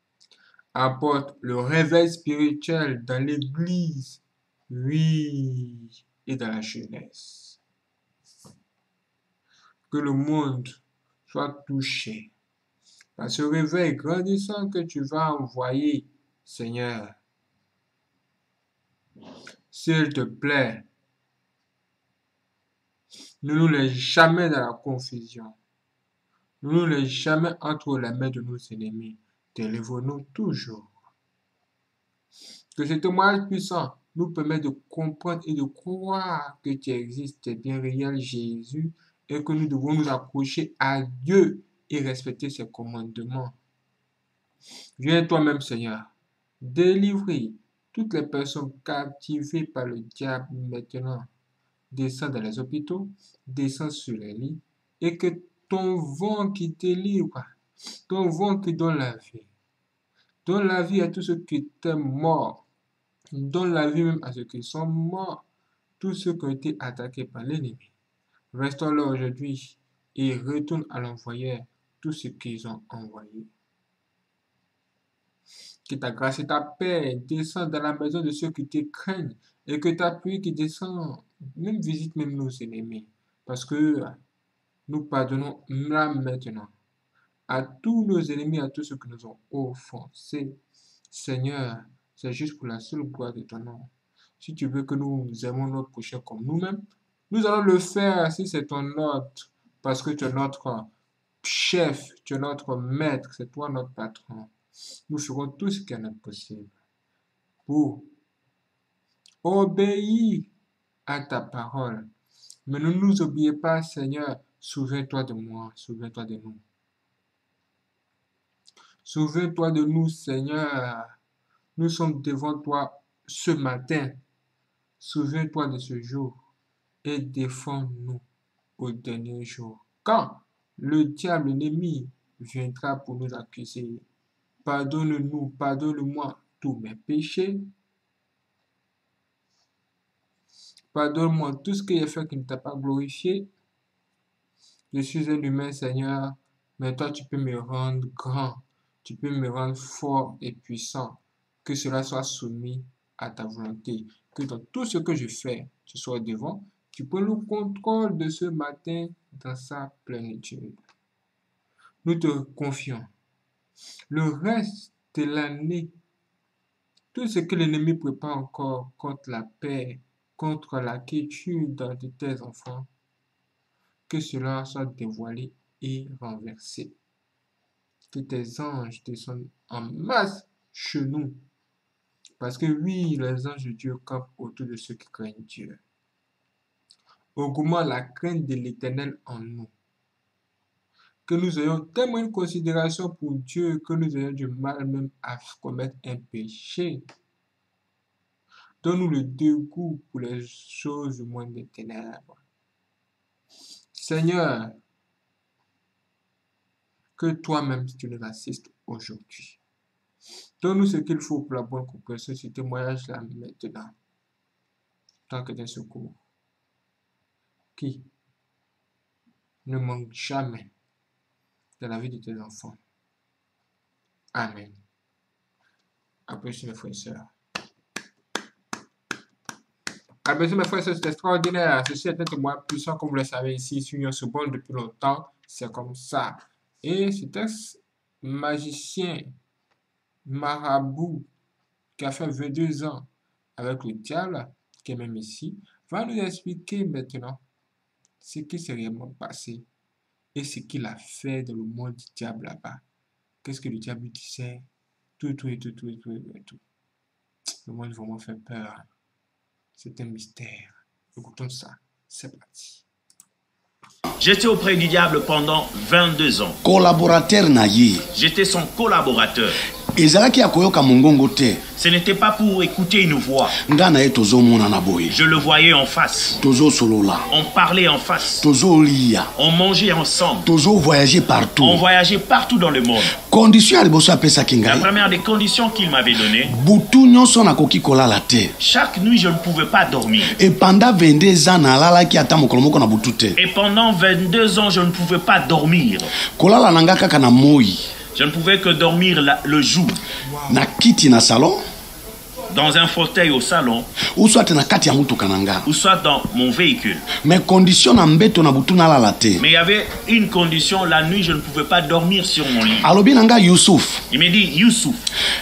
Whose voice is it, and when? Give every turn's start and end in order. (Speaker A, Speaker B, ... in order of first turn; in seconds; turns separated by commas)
Speaker A: 0.7-7.6, Speaker A: 9.9-12.3, Speaker A: 13.2-17.2, Speaker A: 19.7-20.9, Speaker A: 23.4-25.6, Speaker A: 26.6-30.9, Speaker A: 32.7-43.6, Speaker A: 45.0-51.3, Speaker A: 51.9-57.5, Speaker A: 58.1-59.5, Speaker A: 60.4-62.6, Speaker A: 63.3-65.4, Speaker A: 66.0-67.9, Speaker A: 68.5-73.5, Speaker A: 75.9-84.2, Speaker A: 84.9-86.7, Speaker A: 87.5-90.6, Speaker A: 91.1-100.9, Speaker A: 101.4-104.5, Speaker A: 105.1-106.8, Speaker A: 107.7-108.1, Speaker A: 109.4-110.5, Speaker A: 111.0-112.1, Speaker A: 112.7-116.6, Speaker A: 119.0-121.2, Speaker A: 121.8-124.2, Speaker A: 125.0-126.4, Speaker A: 127.0-128.2, Speaker A: 128.8-134.1, Speaker A: 134.6-137.7, Speaker A: 140.9-143.5, Speaker A: 144.9-160.8, Speaker A: 162.0-163.1, Speaker A: 164.1-165.9, Speaker A: 167.1-172.9, Speaker A: 174.1-176.9, Speaker A: 178.1-181.4, Speaker A: 182.4-185.8, Speaker A: 187.3-189.7, Speaker A: 191.2-197.1, Speaker A: 198.8-202.4, Speaker A: 203.9-204.8, Speaker A: 207.2-209.6, Speaker A: 210.6-213.9, Speaker A: 215.3-216.2, Speaker A: 217.8-218.1, Speaker A: 219.6-220.7, Speaker A: 221.8-222.8, Speaker A: 224.3-224.8, Speaker A: 226.3-227.3, Speaker A: 230.2-239.4, Speaker A: 240.2-241.3, Speaker A: 241.9-247.4, Speaker A: 248.2-249.7, Speaker A: 250.3-252.8, Speaker A: 253.4-254.7, Speaker A: 255.2-256.6, Speaker A: 257.6-258.9, Speaker A: 259.8-262.8, Speaker B: 264.2-266.6, Speaker C: 266.6-268.1, Speaker B: 268.1-269.6, Speaker C: 269.9-271.6, Speaker B: 271.8-273.6, Speaker C: 273.6-275.1, Speaker B: 275.1-276.4, Speaker C: 276.4-277.3, Speaker B: 277.3-278.4, Speaker C: 278.4-279.3, Speaker B: 279.4-280.5, Speaker C: 280.4-281.8, Speaker B: 281.6-283.1, Speaker C: 283.1-284.9, Speaker B: 284.6-286.5, Speaker C: 286.4-288.5, Speaker B: 288.6-290.3, Speaker C: 290.3-293.4, Speaker B: 293.4-296.1, Speaker C: 296.4-297.8, Speaker B: 298.1-300.0, Speaker C: 300.5-301.6, Speaker B: 302.5-303.9, Speaker C: 304.1-305.7, Speaker B: 305.6-307.1, Speaker C: 307.1-309.4, Speaker B: 309.4-312.9, Speaker C: 312.8-314.0, Speaker B: 314.1-315.0